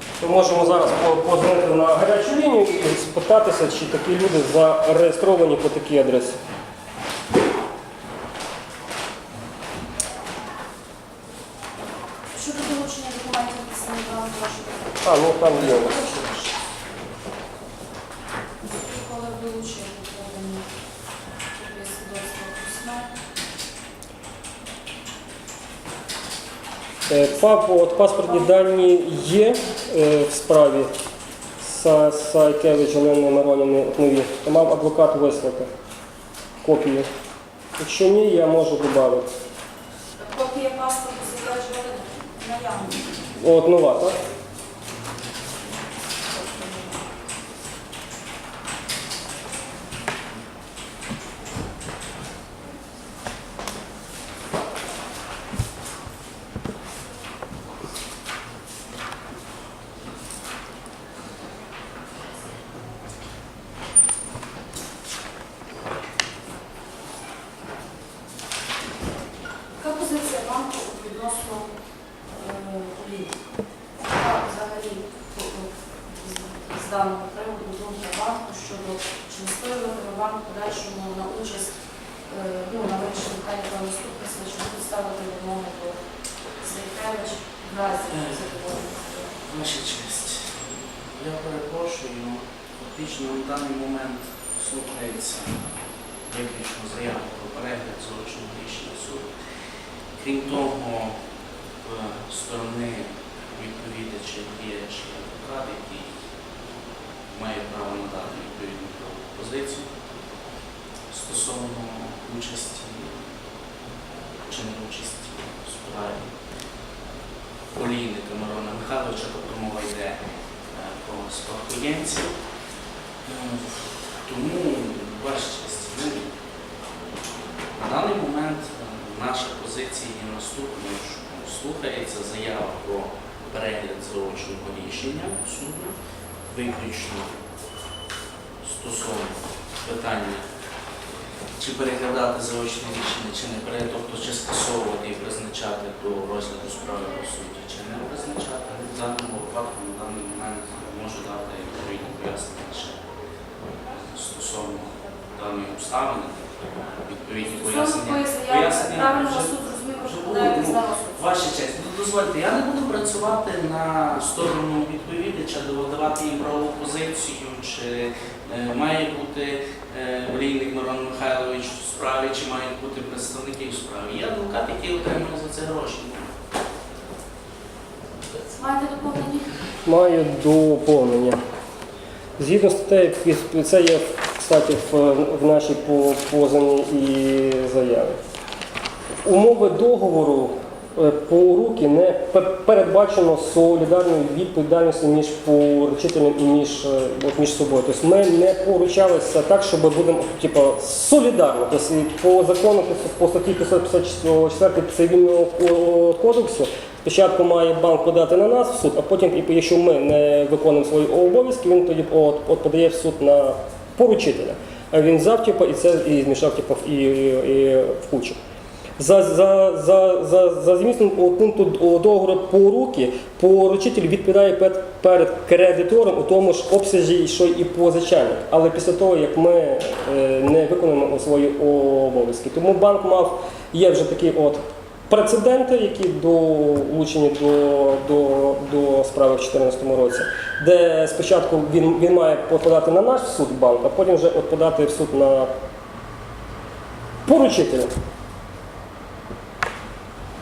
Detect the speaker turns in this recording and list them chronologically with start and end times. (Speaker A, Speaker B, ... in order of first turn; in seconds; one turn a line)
Speaker A: 0.2-6.4
Speaker B: 12.3-16.5
Speaker A: 15.0-16.1
Speaker B: 18.6-20.7
Speaker B: 21.5-23.1
Speaker A: 27.1-30.9
Speaker A: 31.6-35.7
Speaker A: 36.6-37.1
Speaker A: 37.8-39.3
Speaker B: 40.2-43.2
Speaker A: 43.4-44.2
Speaker B: 46.3-47.0
Speaker B: 69.8-71.8
Speaker B: 72.3-73.5
Speaker B: 74.0-81.7
Speaker B: 82.2-86.0
Speaker B: 86.6-89.4
Speaker C: 88.1-88.5
Speaker C: 89.4-95.7
Speaker C: 96.3-99.3
Speaker C: 100.2-101.2
Speaker C: 101.8-106.1
Speaker C: 107.3-109.9
Speaker C: 111.1-113.4
Speaker C: 114.5-116.3
Speaker C: 117.7-120.2
Speaker C: 120.7-122.4
Speaker C: 123.2-126.3
Speaker C: 127.8-135.9
Speaker C: 136.5-137.4
Speaker C: 138.6-140.5
Speaker C: 141.6-153.0
Speaker C: 154.1-156.5
Speaker C: 157.0-176.3
Speaker B: 157.4-161.3
Speaker B: 178.4-179.6
Speaker A: 179.8-181.4
Speaker A: 182.4-188.2
Speaker A: 189.2-218.4
Speaker A: 219.0-245.5
Speaker A: 247.3-247.9